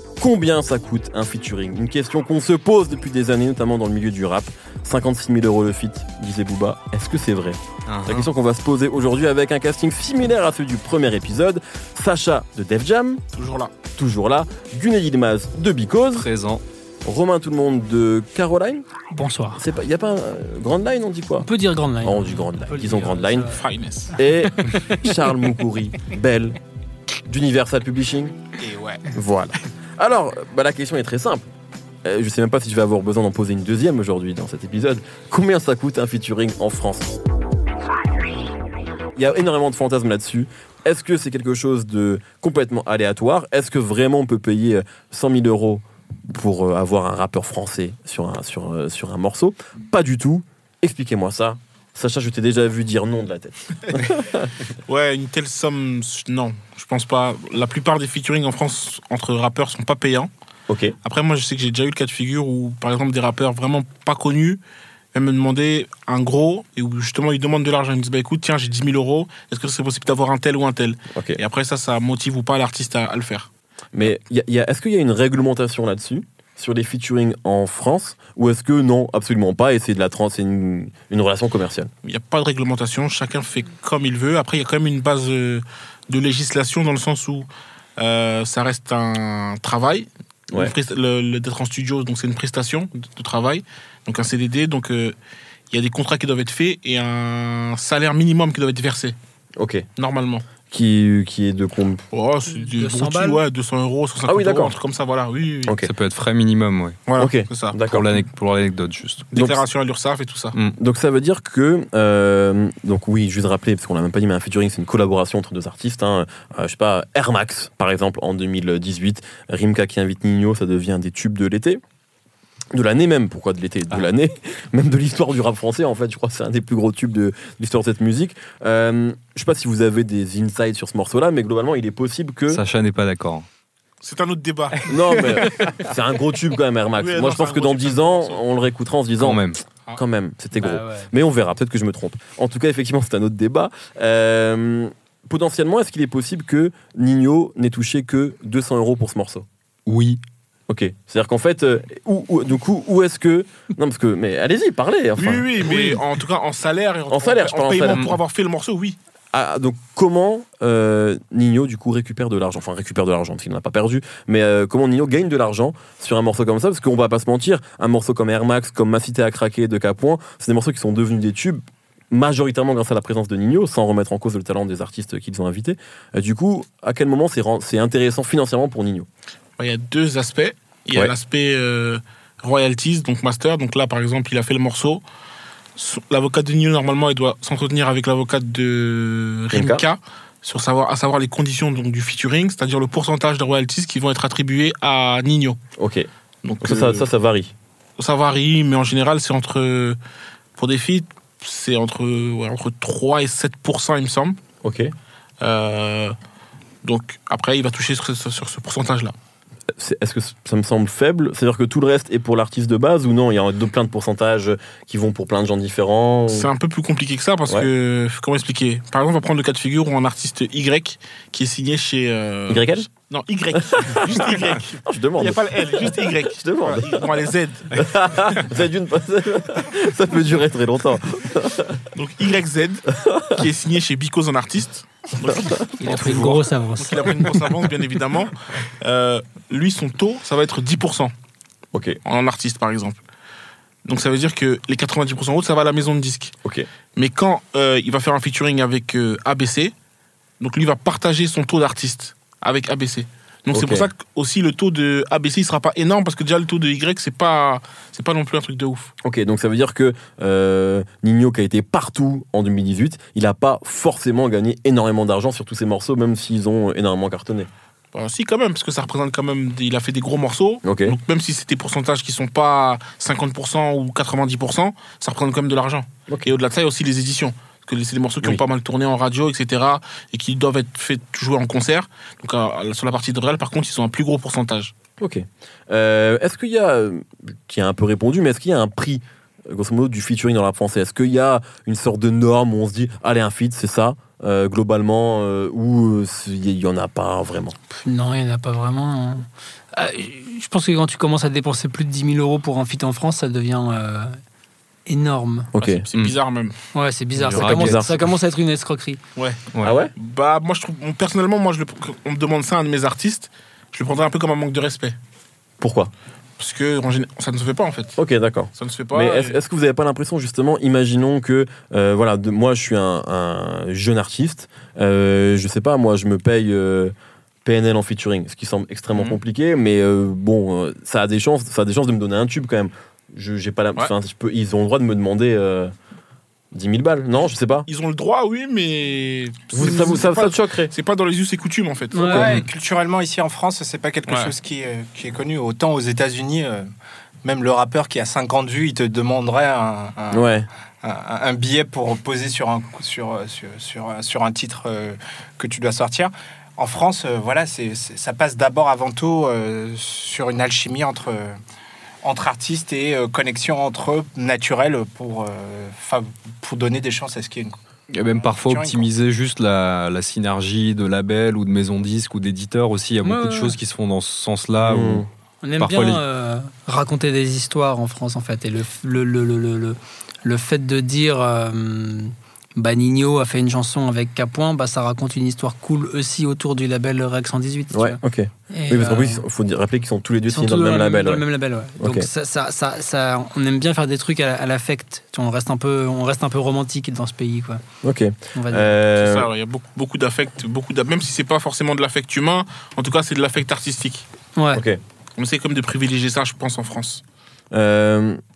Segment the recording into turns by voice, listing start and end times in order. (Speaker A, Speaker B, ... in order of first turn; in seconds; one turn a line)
Speaker A: 0.2-13.2
Speaker B: 7.9-8.3
Speaker C: 13.3-13.7
Speaker A: 13.9-16.3
Speaker B: 16.1-16.6
Speaker A: 17.1-18.9
Speaker D: 19.1-19.6
Speaker A: 19.6-21.5
Speaker D: 21.4-25.2
Speaker A: 22.0-23.5
Speaker C: 23.5-24.2
Speaker A: 24.2-26.6
Speaker A: 27.3-28.4
Speaker E: 28.6-29.1
Speaker A: 29.1-31.5
Speaker A: 32.0-37.2
Speaker A: 39.1-54.5
Speaker C: 54.9-60.3
Speaker A: 60.7-61.0
Speaker C: 61.0-64.6
Speaker C: 65.1-73.5
Speaker A: 71.2-71.4
Speaker A: 73.9-81.9
Speaker C: 82.0-95.2
Speaker C: 95.7-99.2
Speaker A: 99.6-99.9
Speaker C: 100.0-100.4
Speaker A: 100.7-102.0
Speaker C: 102.1-105.7
Speaker D: 102.5-103.4
Speaker A: 104.3-104.7
Speaker B: 105.8-107.0
Speaker C: 107.1-107.8
Speaker A: 107.2-108.1
Speaker B: 107.8-109.3
Speaker C: 109.3-110.5
Speaker A: 109.3-109.6
Speaker A: 110.8-121.8
Speaker A: 122.7-132.6
Speaker B: 132.5-133.5
Speaker C: 134.0-135.8
Speaker A: 134.9-149.5
Speaker D: 135.1-135.9
Speaker C: 137.0-138.4
Speaker B: 139.2-139.6
Speaker D: 140.6-141.1
Speaker B: 149.9-150.2
Speaker A: 150.7-156.0
Speaker C: 155.2-159.0
Speaker A: 157.1-158.2
Speaker B: 157.9-158.2
Speaker A: 159.3-179.1
Speaker C: 179.6-185.0
Speaker C: 185.8-195.6
Speaker A: 189.5-189.8
Speaker A: 195.8-196.1
Speaker C: 196.4-197.1
Speaker A: 196.6-197.5
Speaker C: 198.0-200.0
Speaker C: 200.6-204.4
Speaker A: 204.6-204.9
Speaker C: 205.4-206.2
Speaker C: 206.8-209.1
Speaker A: 209.8-216.5
Speaker C: 216.3-227.8
Speaker A: 222.5-222.9
Speaker A: 223.6-227.0
Speaker A: 227.8-231.8
Speaker C: 231.9-241.1
Speaker A: 233.0-233.4
Speaker A: 235.3-235.7
Speaker D: 235.8-237.3
Speaker A: 241.7-242.0
Speaker C: 242.1-243.0
Speaker C: 243.8-246.3
Speaker C: 246.9-249.7
Speaker C: 250.4-258.9
Speaker A: 253.5-253.9
Speaker A: 259.0-267.5
Speaker C: 267.9-284.7
Speaker A: 270.6-271.0
Speaker A: 285.0-297.6
Speaker D: 297.8-304.2
Speaker D: 304.9-305.5
Speaker A: 305.6-305.9
Speaker C: 305.6-306.6
Speaker D: 306.7-309.0
Speaker A: 307.2-308.1
Speaker B: 307.3-307.8
Speaker C: 309.2-315.0
Speaker A: 309.6-309.9
Speaker A: 315.6-315.9
Speaker C: 316.4-317.9
Speaker A: 318.0-326.9
Speaker C: 318.6-319.4
Speaker A: 327.4-335.7
Speaker A: 336.5-337.7
Speaker C: 337.7-342.4
Speaker A: 339.5-340.7
Speaker D: 341.9-342.4
Speaker E: 342.1-346.7
Speaker C: 344.1-344.3
Speaker E: 347.2-350.3
Speaker A: 350.1-350.5
Speaker E: 350.8-361.4
Speaker E: 362.0-367.6
Speaker B: 367.9-375.1
Speaker E: 368.1-368.9
Speaker D: 373.0-373.6
Speaker A: 374.6-375.1
Speaker D: 375.4-389.2
Speaker B: 375.6-376.0
Speaker A: 387.7-391.2
Speaker D: 390.3-397.6
Speaker A: 391.8-392.1
Speaker A: 397.8-399.3
Speaker D: 398.4-398.7
Speaker C: 399.0-404.1
Speaker D: 404.4-404.6
Speaker A: 404.5-404.8
Speaker C: 405.2-407.0
Speaker A: 407.5-408.2